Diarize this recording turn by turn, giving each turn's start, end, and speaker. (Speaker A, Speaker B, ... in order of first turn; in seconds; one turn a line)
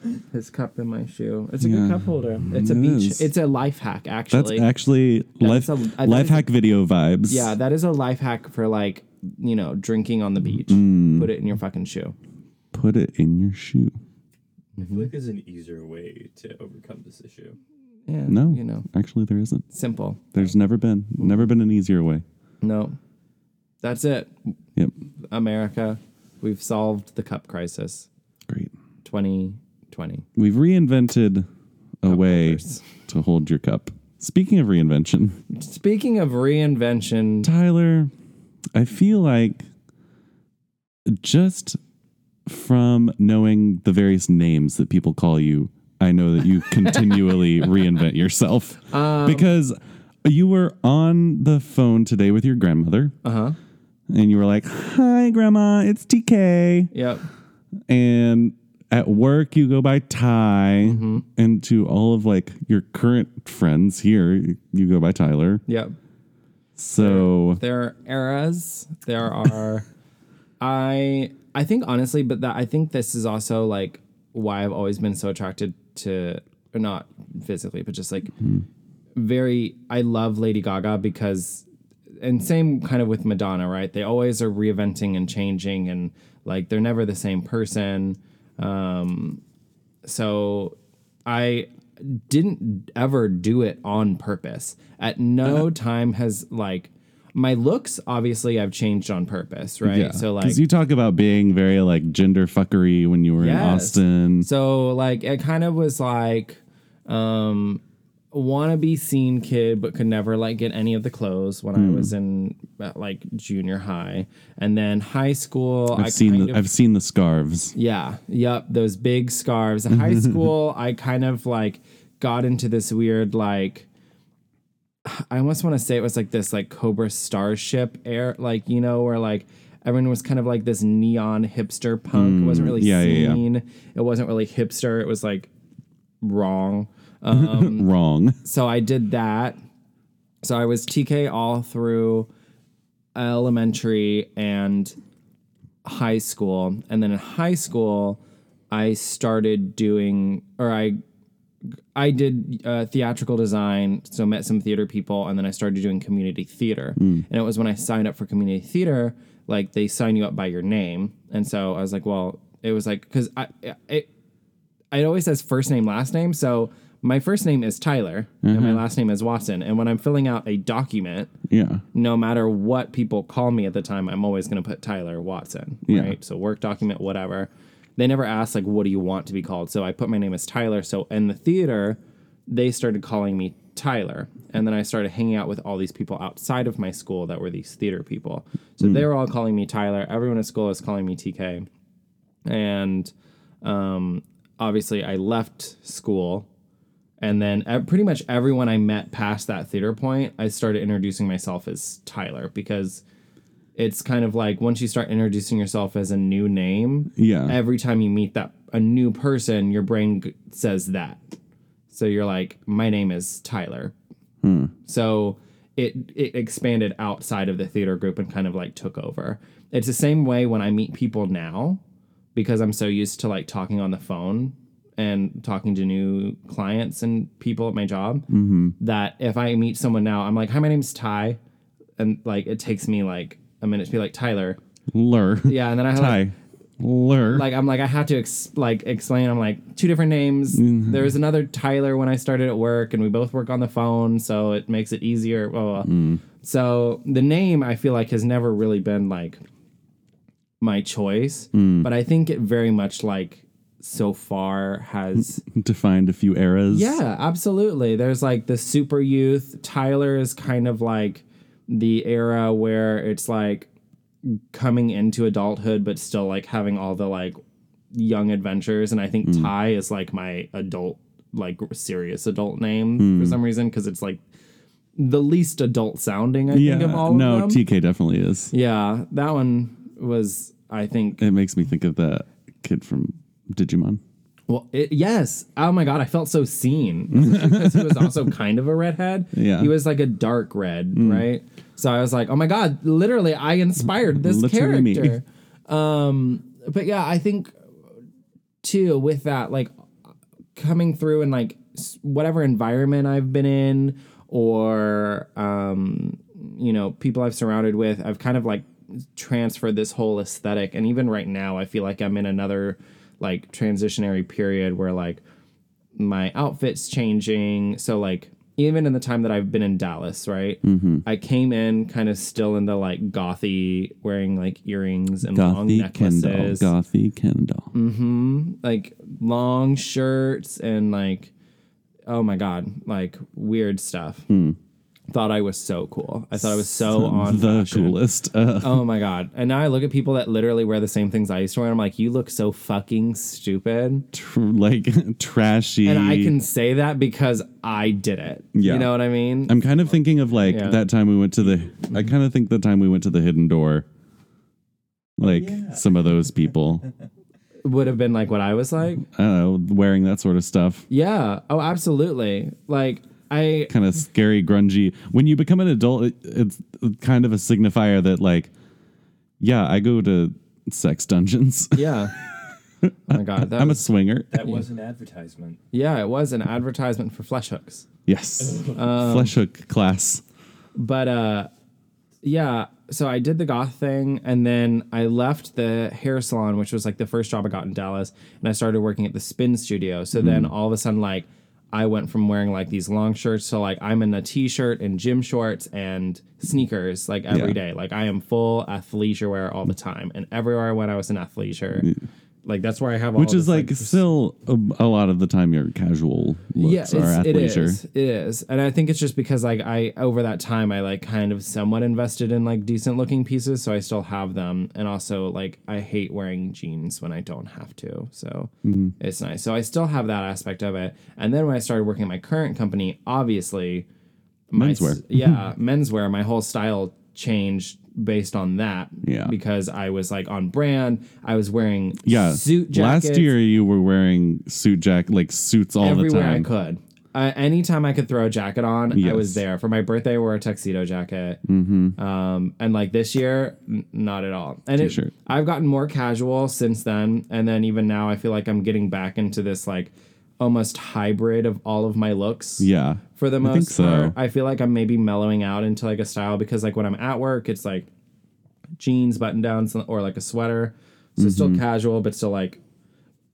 Speaker A: 0.2-4.7
Speaker B: 1.6-3.3
Speaker B: 4.3-7.5
Speaker A: 5.4-6.5
Speaker A: 7.3-12.1
Speaker B: 10.6-11.3
Speaker B: 12.7-14.0
Speaker A: 14.8-15.1
Speaker C: 14.8-17.6
Speaker A: 18.1-18.9
Speaker B: 18.3-19.7
Speaker A: 19.7-20.4
Speaker B: 20.3-22.2
Speaker A: 22.6-23.0
Speaker A: 23.8-24.5
Speaker A: 25.3-28.1
Speaker A: 29.0-30.2
Speaker B: 30.4-31.5
Speaker B: 32.0-35.4
Speaker A: 32.1-32.9
Speaker A: 35.5-37.5
Speaker B: 37.4-38.1
Speaker B: 38.7-39.6
Speaker B: 41.1-41.8
Speaker B: 42.5-53.1
Speaker A: 48.9-49.5
Speaker A: 53.2-53.6
Speaker B: 54.1-56.9
Speaker A: 56.9-57.2
Speaker B: 57.9-65.6
Speaker A: 60.8-61.2
Speaker A: 65.7-66.0
Speaker B: 66.8-67.6
Speaker A: 67.0-69.8
Speaker A: 70.6-78.3
Speaker B: 78.4-78.7
Speaker A: 79.2-81.7
Speaker A: 82.2-89.4
Speaker A: 90.0-100.6
Speaker B: 99.8-104.5
Speaker A: 103.4-116.6
Speaker B: 111.8-112.1
Speaker B: 115.9-117.8
Speaker A: 117.8-123.9
Speaker B: 120.1-120.4
Speaker A: 125.0-135.5
Speaker B: 132.1-133.4
Speaker A: 136.2-137.9
Speaker B: 137.3-138.4
Speaker A: 138.4-139.6
Speaker A: 140.4-142.3
Speaker A: 143.1-144.9
Speaker A: 145.8-151.0
Speaker A: 151.9-164.1
Speaker B: 157.0-157.2
Speaker A: 164.9-171.3
Speaker B: 168.4-168.8
Speaker B: 171.5-171.8
Speaker A: 171.9-191.7
Speaker B: 175.9-176.2
Speaker A: 192.4-193.1
Speaker A: 193.6-196.5
Speaker A: 197.2-203.0
Speaker A: 203.8-211.2
Speaker B: 207.2-207.6
Speaker A: 211.9-213.9
Speaker B: 214.4-214.7
Speaker A: 214.8-221.8
Speaker A: 222.3-228.3
Speaker B: 228.3-228.8
Speaker A: 228.8-231.4
Speaker A: 232.0-234.6
Speaker B: 234.9-237.5
Speaker A: 235.4-236.2
Speaker A: 237.3-249.4
Speaker B: 240.5-241.1
Speaker B: 245.8-246.2
Speaker A: 250.6-255.4
Speaker B: 251.5-251.9
Speaker B: 255.2-256.9
Speaker A: 256.7-263.7
Speaker A: 264.2-267.4
Speaker A: 267.9-274.2
Speaker B: 273.0-273.4
Speaker A: 275.0-277.6
Speaker B: 276.5-278.5
Speaker A: 278.5-281.2
Speaker B: 281.2-284.0
Speaker A: 284.5-297.6
Speaker B: 287.1-288.1
Speaker B: 289.3-289.7
Speaker B: 290.9-291.2
Speaker B: 294.0-295.2
Speaker A: 298.6-299.7
Speaker A: 300.6-315.2
Speaker A: 316.0-326.7
Speaker B: 320.6-321.0
Speaker B: 325.3-327.7
Speaker A: 327.7-331.3
Speaker A: 332.1-334.3
Speaker B: 334.3-334.6
Speaker A: 335.1-338.0
Speaker B: 336.4-338.9
Speaker A: 338.6-344.1
Speaker B: 344.1-346.3
Speaker A: 345.8-349.6
Speaker B: 348.5-348.9
Speaker B: 349.5-353.9
Speaker C: 349.9-350.4
Speaker A: 350.5-350.8
Speaker B: 355.2-356.9
Speaker C: 355.2-355.9
Speaker A: 357.6-359.1
Speaker B: 359.1-360.9
Speaker A: 360.9-363.7
Speaker B: 363.7-368.5
Speaker B: 369.4-374.4
Speaker A: 371.7-372.1
Speaker A: 373.1-373.9
Speaker C: 374.3-375.6
Speaker A: 375.7-377.9
Speaker B: 378.1-380.2
Speaker A: 378.7-379.3
Speaker A: 380.8-381.5
Speaker A: 382.2-401.9
Speaker B: 390.1-390.5
Speaker B: 397.3-397.6
Speaker A: 402.4-404.0
Speaker B: 403.1-407.8
Speaker A: 406.6-423.9
Speaker B: 418.6-418.9
Speaker A: 424.5-433.3
Speaker B: 424.6-425.4
Speaker B: 429.0-429.3
Speaker B: 432.0-436.5
Speaker A: 435.8-441.4
Speaker B: 438.9-439.4
Speaker B: 441.4-442.0
Speaker A: 442.0-457.9
Speaker B: 444.8-445.1
Speaker B: 452.6-454.1
Speaker A: 458.8-462.6
Speaker B: 461.2-461.6